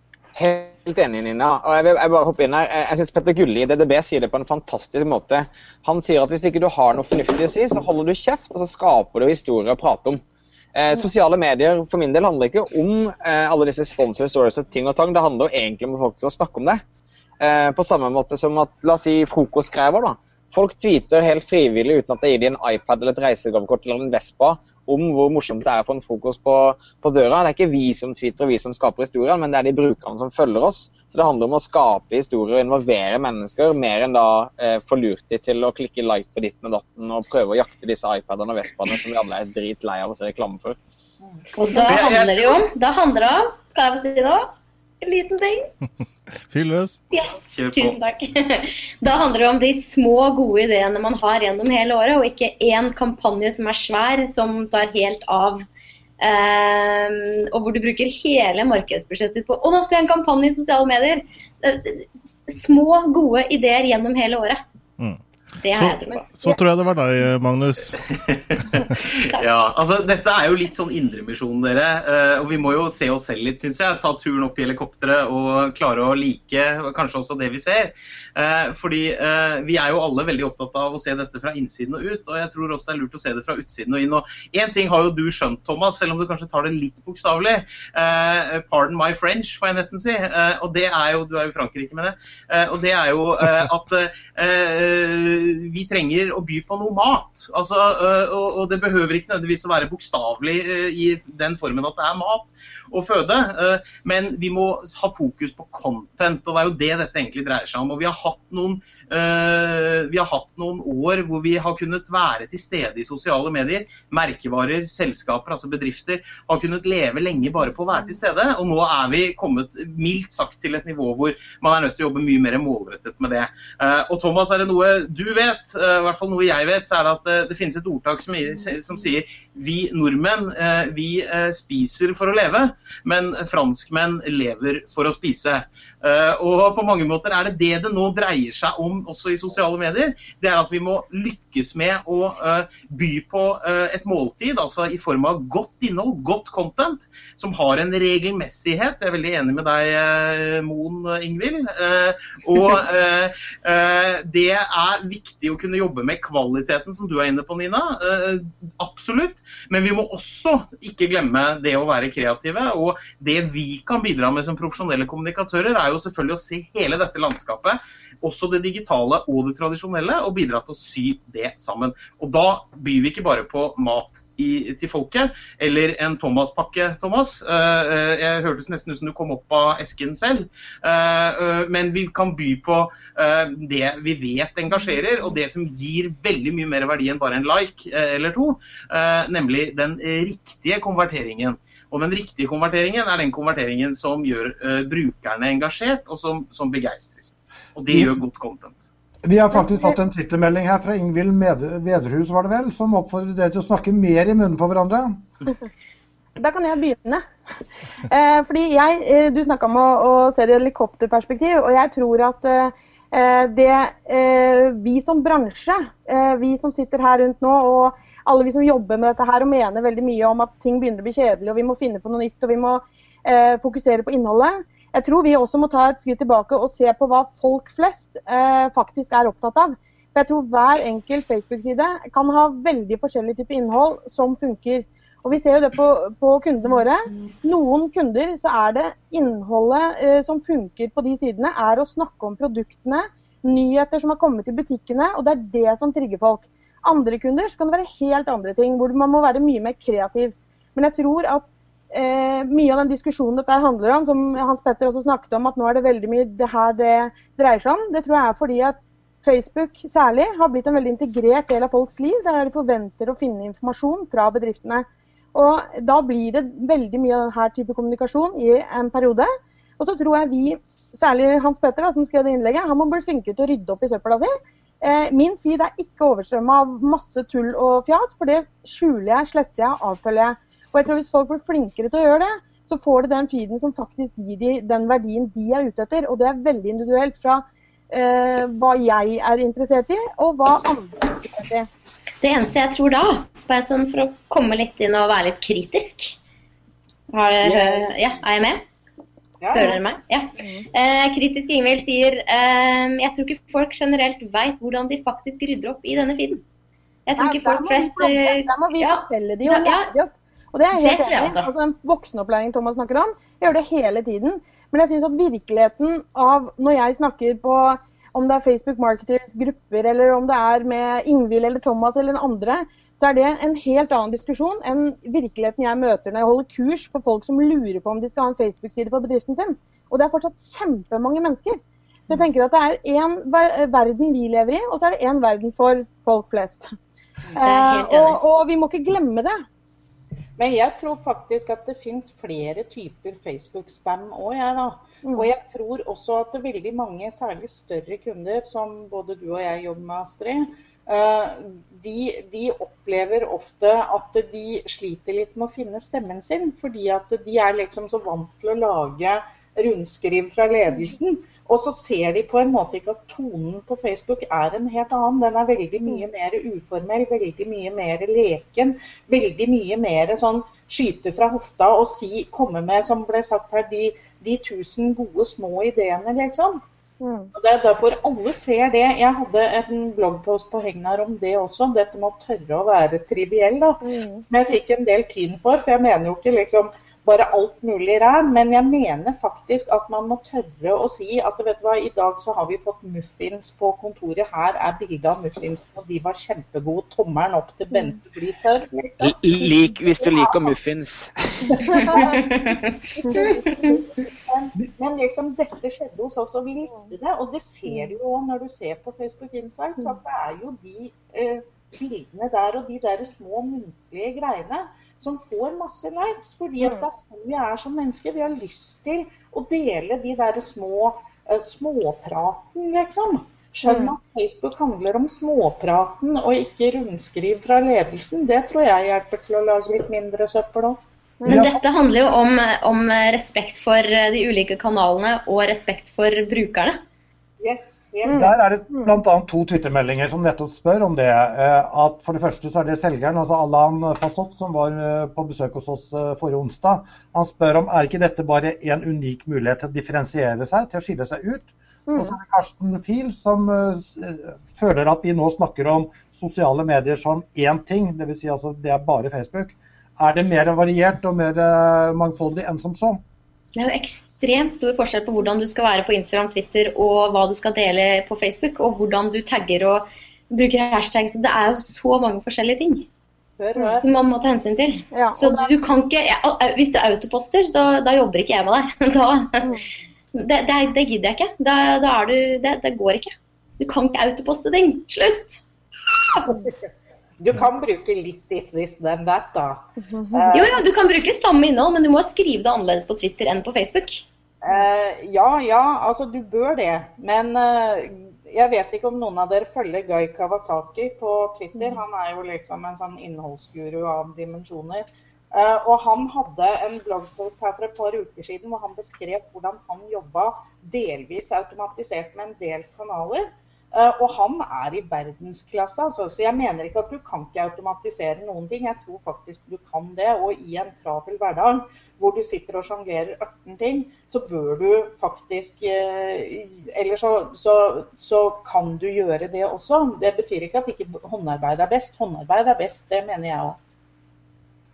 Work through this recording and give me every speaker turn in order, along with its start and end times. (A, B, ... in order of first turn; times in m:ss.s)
0:00.3-0:10.2 A
0:10.7-0:16.8 A
0:17.4-0:40.8 A
0:41.5-0:45.7 B
0:41.8-0:42.6 C
0:46.5-0:47.0 D
0:47.1-0:55.7 B
0:47.5-0:48.0 C
0:56.2-1:04.6 B
1:05.6-1:06.6 B
1:05.7-1:08.0 D
1:08.0-3:18.8 C
1:09.1-1:09.5 B
3:19.2-3:25.2 E
3:19.5-3:19.9 F
3:26.4-3:27.2 F
3:28.1-4:51.7 F
4:52.2-4:56.2 B
4:57.1-4:58.6 B
4:57.4-4:57.9 A
4:59.4-4:59.8 G
4:59.5-5:06.4 B
5:00.4-5:00.6 F
5:07.0-5:09.9 B
5:07.2-5:36.7 F
5:10.7-5:11.5 B
5:37.4-5:39.4 F
5:37.4-5:38.2 B
5:40.4-6:16.6 G
5:45.0-5:45.3 F
6:17.0-6:17.3 F
6:17.3-6:39.2 G
6:23.8-6:24.2 F
6:39.0-6:41.4 A
6:40.0-6:40.5 G
6:41.5-6:42.2 G
6:41.7-6:42.1 F
6:41.7-6:43.4 B
6:42.9-7:10.8 G
6:47.7-6:47.9 F
7:03.6-7:03.9 F
7:11.2-7:11.6 F
7:11.3-7:11.6 E
7:11.3-7:16.8 B
7:17.4-7:18.3 G
7:18.0-7:18.9 F
7:18.1-7:43.0 E
7:31.9-7:32.1 F
7:43.6-7:52.9 B
7:53.4-7:53.8 G
7:53.8-7:59.5 B
7:54.9-7:55.5 F
8:00.1-8:05.4 B
8:06.2-8:10.6 G
8:09.8-8:10.5 F
8:10.3-8:14.0 B
8:14.4-8:53.6 G